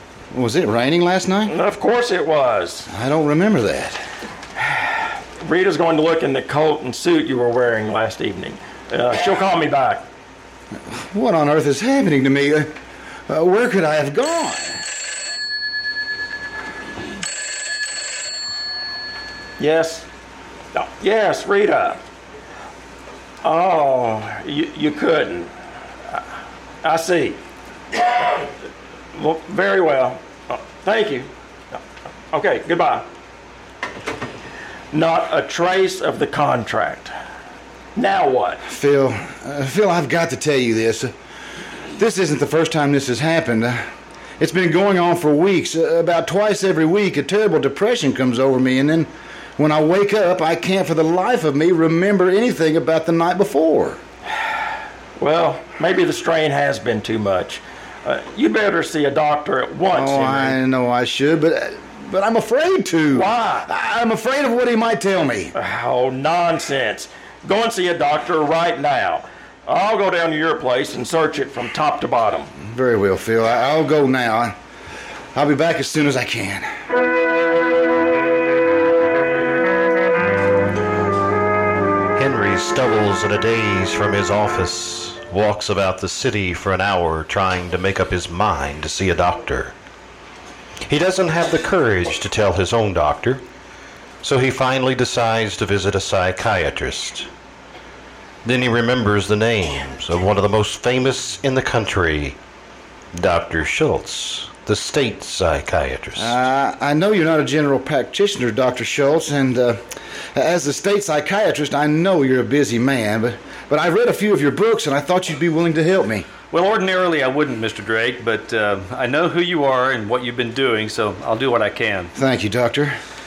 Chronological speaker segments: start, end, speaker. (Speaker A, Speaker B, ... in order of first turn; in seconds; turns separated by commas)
Speaker A: 0.3-1.5, Speaker B: 1.5-2.9, Speaker A: 2.9-4.0, Speaker B: 5.4-10.0, Speaker A: 10.9-12.7, Speaker A: 13.3-14.8, Speaker B: 19.6-20.1, Speaker B: 20.7-22.0, Speaker B: 23.4-25.5, Speaker B: 26.8-27.4, Speaker B: 28.0-28.4, Speaker B: 29.1-31.8, Speaker B: 32.3-33.1, Speaker B: 34.9-37.1, Speaker B: 38.0-38.6, Speaker A: 38.7-41.1, Speaker A: 42.0-43.8, Speaker A: 44.4-54.0, Speaker B: 55.2-60.6, Speaker A: 59.9-65.5, Speaker B: 63.1-63.7, Speaker B: 65.5-72.5, Speaker A: 72.6-74.6, Speaker A: 75.3-76.7, Speaker C: 82.2-89.7, Speaker C: 90.9-93.4, Speaker C: 94.2-97.3, Speaker C: 98.5-102.4, Speaker C: 103.2-106.4, Speaker A: 106.2-109.8, Speaker A: 110.3-116.3, Speaker D: 116.5-122.1, Speaker A: 122.1-123.0